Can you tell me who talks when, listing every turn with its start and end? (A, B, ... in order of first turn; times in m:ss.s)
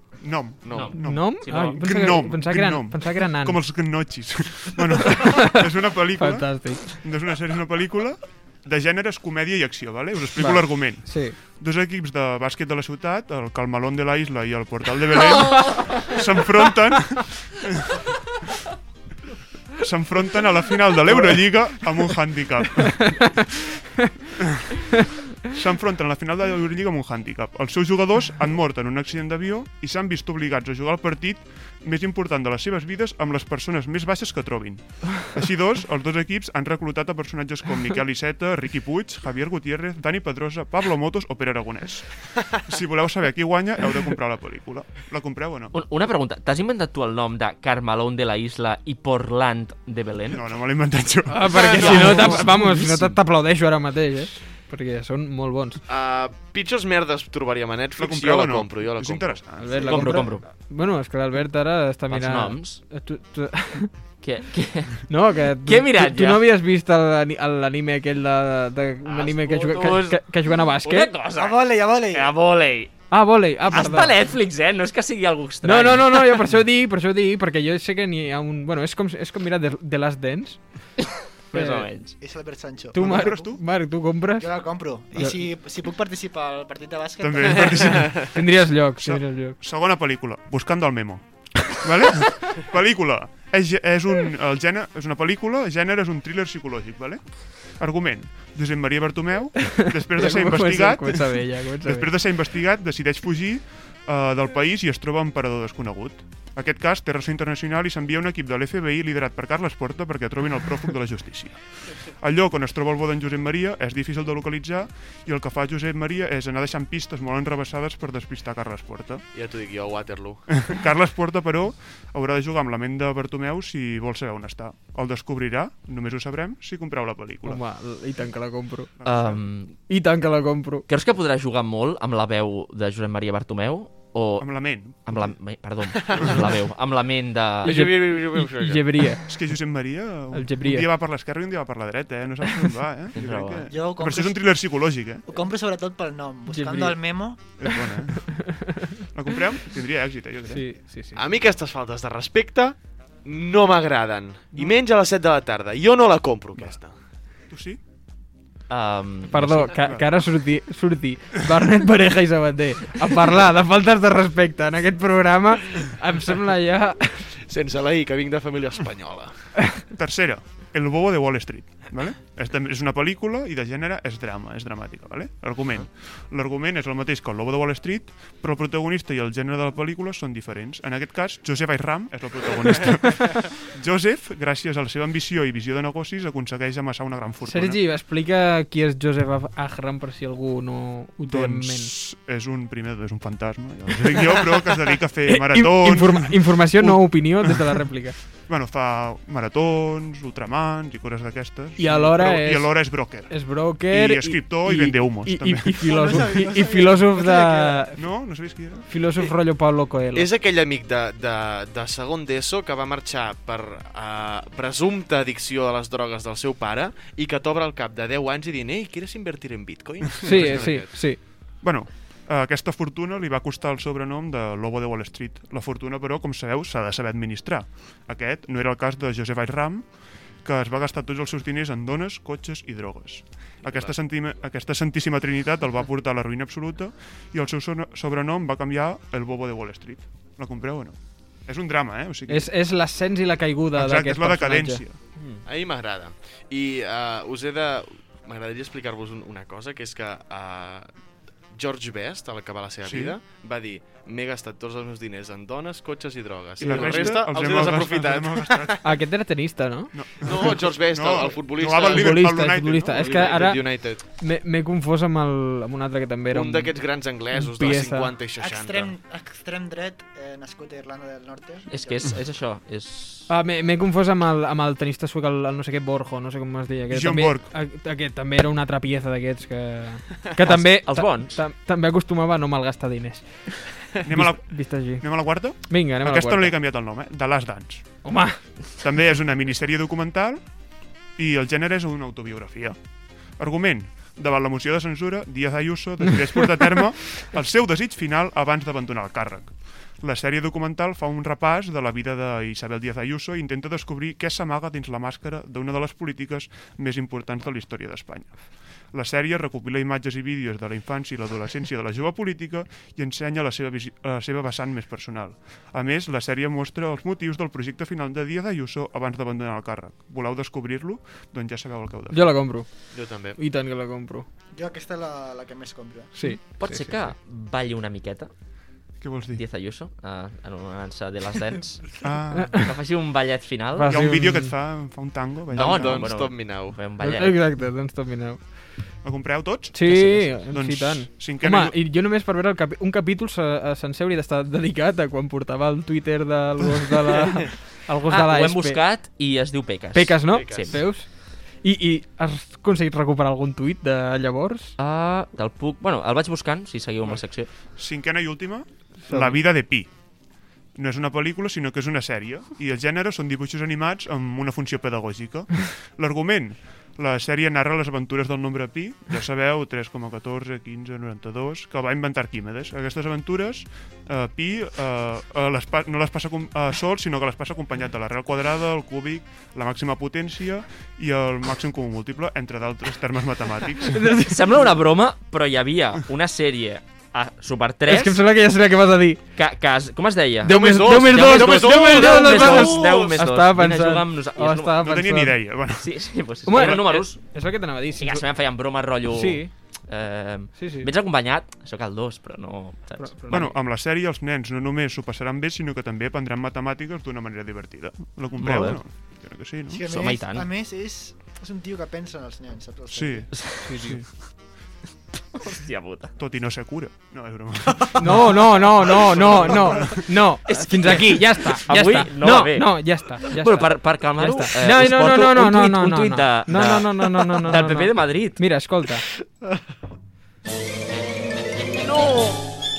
0:00.2-0:18.5 A
0:00.6-0:00.9 B
0:00.7-0:01.8 C
0:01.0-0:03.6 D
0:05.1-0:05.6 D
0:06.2-0:07.0 D
0:10.4-0:11.4 D
0:19.8-0:23.4 A
0:23.0-0:23.4 D
0:24.4-0:24.8 A
0:25.5-0:45.7 A
0:45.7-0:50.4 C
0:50.3-0:52.6 A
0:51.3-0:55.8 D
0:51.6-0:51.9 B
0:51.8-0:53.2 C
0:55.9-1:00.1 B
0:58.0-1:00.2 A
0:59.6-1:03.9 D
0:59.8-1:00.4 C
1:02.1-1:02.8 C
1:04.2-1:05.0 C
1:05.1-1:11.1 D
1:05.6-1:06.4 C
1:09.1-1:10.2 C
1:10.8-1:12.9 C
1:11.3-1:12.3 E
1:13.1-1:14.1 D
1:13.7-1:16.5 C
1:15.6-1:20.6 D
1:21.5-1:22.2 C
1:21.5-1:21.8 D
1:22.2-1:23.6 E
1:22.9-1:24.5 D
1:23.0-1:23.6 A
1:24.4-1:28.0 E
1:27.2-1:28.4 A
1:27.9-1:28.2 B
1:28.1-1:29.6 D
1:29.0-1:59.2 A
1:39.7-1:42.1 D
1:59.3-2:00.7 B
2:00.6-2:07.6 A
2:07.4-2:08.9 D
2:09.0-2:09.4 A
2:09.0-2:09.8 C
2:09.9-2:10.8 D
2:10.9-2:17.8 C
2:14.4-2:15.3 A
2:16.0-2:16.4 B
2:16.1-2:16.5 A
2:17.6-2:19.1 B
2:17.6-2:19.3 D
2:19.3-2:25.2 A
2:20.3-2:20.9 D
2:23.1-2:23.7 C
2:23.7-2:24.4 E
2:25.3-2:27.4 E
2:26.5-2:27.0 D
2:27.6-2:28.4 A
2:28.3-2:28.9 D
2:29.1-2:30.6 A
2:30.5-2:31.2 D
2:31.2-2:37.0 B
2:37.5-2:37.8 A
2:38.7-2:39.7 C
2:39.3-2:47.3 D
2:39.4-2:40.2 A
2:47.5-2:49.3 B
2:49.9-3:07.8 A
3:07.4-3:11.9 D
3:11.2-3:17.8 A
3:15.3-3:18.2 D
3:18.5-3:25.9 A
3:21.8-3:28.0 D
3:25.8-3:27.9 E
3:28.0-3:28.9 A
3:28.9-3:30.3 D
3:30.1-3:40.9 B
3:40.2-3:41.2 D
3:40.2-4:02.5 A
3:53.6-3:53.9 B
4:02.3-4:05.4 D
4:03.7-4:05.0 A
4:05.4-4:10.9 B
4:11.5-4:18.8 B
4:12.8-4:13.2 A
4:16.6-4:18.8 A
4:18.8-4:19.9 D
4:19.9-4:23.3 A
4:20.2-4:22.3 B
4:21.8-4:26.8 D
4:22.9-4:24.0 B
4:26.3-4:28.9 B
4:27.3-4:28.1 D
4:28.4-4:32.1 E
4:31.7-4:33.3 C
4:33.3-4:46.5 D
4:36.9-4:37.5 A
4:40.4-4:41.3 C
4:44.0-4:48.1 A
4:48.0-4:48.4 D
4:48.8-4:50.4 A
4:51.2-4:52.8 A
4:53.4-5:22.3 A
5:22.1-5:24.2 D
5:22.9-5:23.4 B
5:24.5-5:26.1 E
5:26.1-5:26.9 D
5:26.5-5:28.3 C
5:29.0-5:29.4 A
5:29.4-5:32.0 C
5:32.0-5:32.6 A
5:32.3-5:32.6 D
5:32.6-5:34.0 C
5:33.8-5:34.5 D
5:33.8-5:36.1 A
5:35.5-5:36.8 B
5:35.5-5:37.4 C
5:37.0-5:38.4 D
5:39.0-5:41.8 A
5:39.7-5:48.8 D
5:39.9-5:40.3 C
5:48.1-5:50.8 C
5:49.9-5:54.7 D
5:50.3-5:50.8 B
5:54.8-5:57.5 C
5:57.8-5:59.9 A
5:59.1-5:59.4 D
6:00.7-6:24.1 A
6:23.9-6:24.4 D
6:24.2-6:28.2 C
6:27.9-6:29.2 D
6:29.4-6:34.8 C
6:30.4-6:35.4 D
6:30.4-6:33.2 B
6:34.8-6:35.9 A
6:35.8-6:37.2 C
6:36.4-6:38.2 D
6:36.5-6:36.8 A
6:38.0-6:43.3 C
6:39.1-6:39.5 D
6:40.6-6:40.9 D
6:43.0-6:43.6 D
6:43.3-6:49.8 A
6:48.4-6:48.8 C
6:49.7-6:53.3 E
6:49.9-6:50.4 C
6:52.9-6:54.1 A
6:53.3-6:53.7 C
6:53.6-6:54.0 D
6:55.4-6:56.1 C
6:56.2-7:00.0 A
6:58.0-7:09.0 D
7:00.5-7:08.4 C